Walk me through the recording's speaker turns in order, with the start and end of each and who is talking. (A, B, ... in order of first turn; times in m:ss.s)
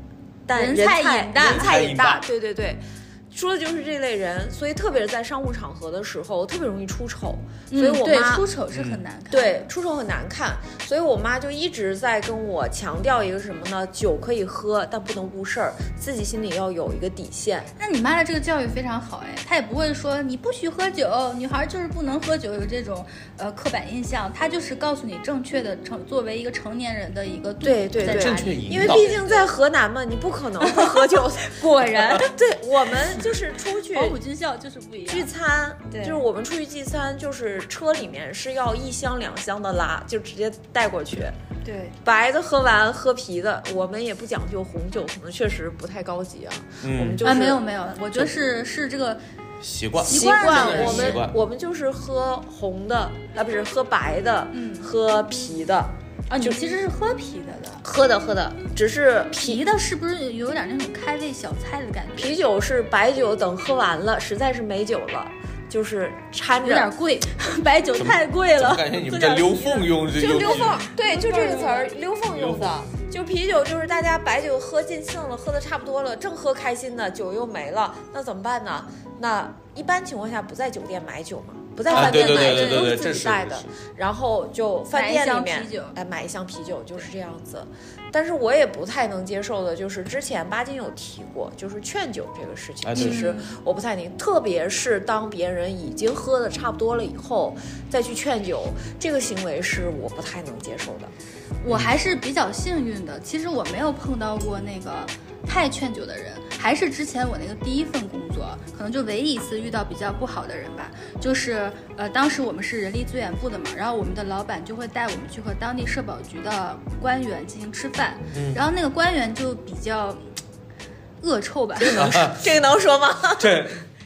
0:00.5-0:08.4 A
0:00.5-0:01.7 B
0:01.4-0:02.2 C
0:07.7-0:09.7 B
0:08.7-0:09.0 C
0:09.3-0:17.7 A
0:17.8-0:29.5 B
0:27.6-0:31.6 A
0:28.0-0:29.1 C
0:30.6-0:32.3 B
0:32.1-0:34.2 A
0:33.9-0:35.3 B
0:35.1-0:41.3 A
0:35.9-0:36.2 B
0:41.6-0:42.0 B
0:42.0-0:47.6 A
0:46.8-0:47.2 C
0:47.2-0:49.2 B
0:49.6-0:51.4 C
0:50.0-0:51.2 B
0:50.0-0:56.7 A
0:54.5-0:54.9 B
0:56.3-0:57.8 B
0:57.8-0:59.6 A
0:59.4-1:02.4 B
1:02.2-1:06.9 A
1:06.6-1:11.9 B
1:08.0-1:10.8 C
1:10.2-1:41.1 A
1:12.3-1:12.8 C
1:21.9-1:23.0 B
1:21.9-1:23.7 C
1:24.9-1:25.9 B
1:32.8-1:33.3 C
1:32.9-1:33.6 B
1:41.6-2:00.2 B
1:58.3-1:58.6 C
2:01.2-2:02.1 B
2:01.8-2:03.6 A
2:01.9-2:02.5 C
2:03.4-2:03.8 C